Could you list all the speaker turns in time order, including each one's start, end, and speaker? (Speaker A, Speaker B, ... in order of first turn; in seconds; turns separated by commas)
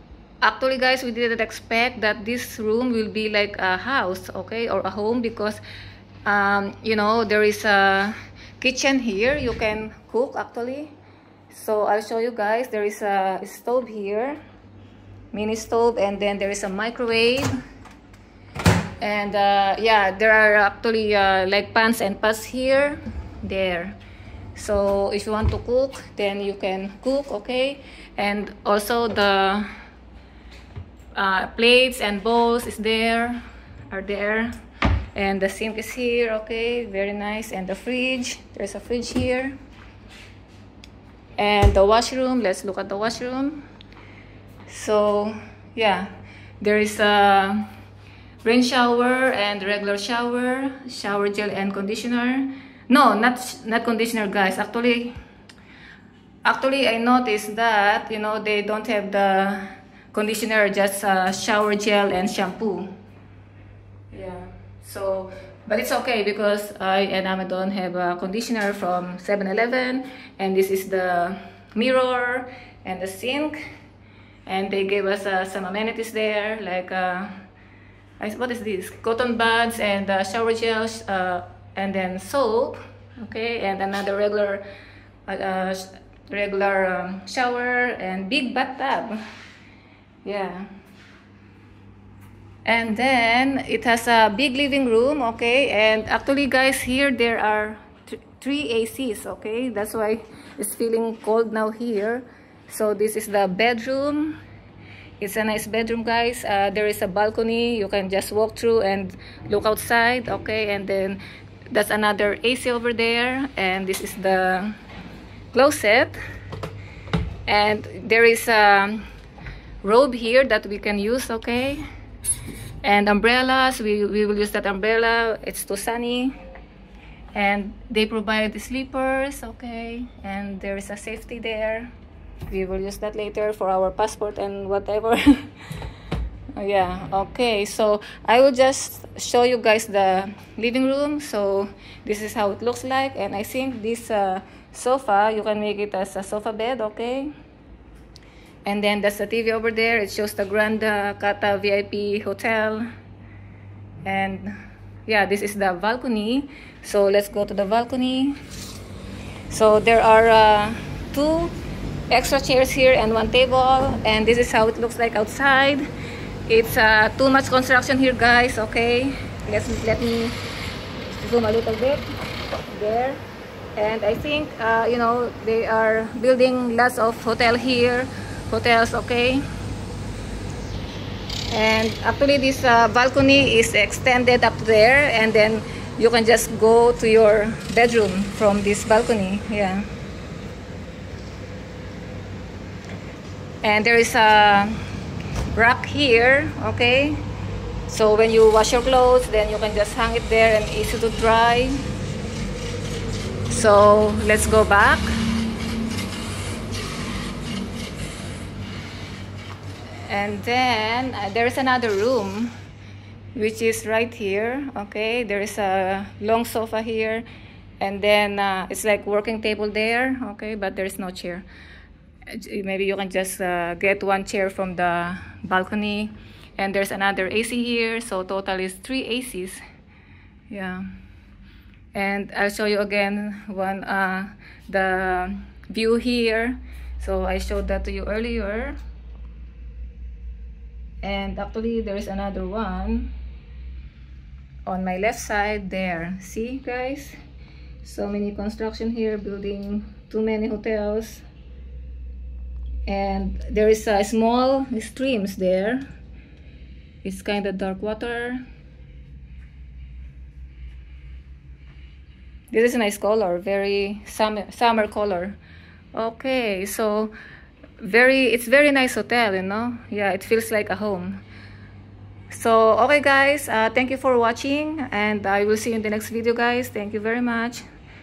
Speaker A: 0.4-5.6, Speaker A: 6.2-10.9, Speaker A: 11.5-14.4, Speaker A: 15.3-17.5, Speaker A: 19.0-23.9, Speaker A: 24.5-29.7, Speaker A: 31.1-34.5, Speaker A: 35.1-39.5, Speaker A: 41.4-43.6, Speaker A: 44.7-46.1, Speaker A: 46.6-47.6, Speaker A: 48.4-55.1, Speaker A: 56.4-62.9, Speaker A: 64.1-73.6, Speaker A: 74.5-77.3, Speaker A: 78.2-84.6, Speaker A: 85.3-89.2, Speaker A: 90.2-90.7, Speaker A: 92.7-97.8, Speaker A: 98.3-104.4, Speaker A: 105.2-114.7, Speaker A: 115.5-116.2, Speaker A: 117.5-119.0, Speaker A: 119.8-121.8, Speaker A: 122.8-126.3, Speaker A: 127.3-131.9, Speaker A: 132.5-135.5, Speaker A: 136.6-147.3, Speaker A: 148.7-152.9, Speaker A: 154.0-154.5, Speaker A: 155.1-158.3, Speaker A: 159.5-161.5, Speaker A: 162.1-165.8, Speaker A: 166.5-170.3, Speaker A: 171.0-172.0, Speaker A: 172.7-173.2, Speaker A: 173.8-179.4, Speaker A: 181.5-189.9, Speaker A: 193.6-194.8, Speaker A: 195.5-197.2, Speaker A: 197.9-201.8, Speaker A: 203.5-205.1, Speaker A: 210.0-212.5, Speaker A: 213.3-217.2, Speaker A: 217.8-221.4, Speaker A: 222.3-229.6, Speaker A: 230.5-230.8, Speaker A: 231.9-238.8, Speaker A: 241.0-243.1, Speaker A: 244.7-247.2, Speaker A: 247.8-251.2, Speaker A: 252.8-255.8, Speaker A: 257.0-258.4, Speaker A: 262.5-265.4, Speaker A: 265.9-267.1, Speaker A: 267.8-271.2, Speaker A: 272.3-277.6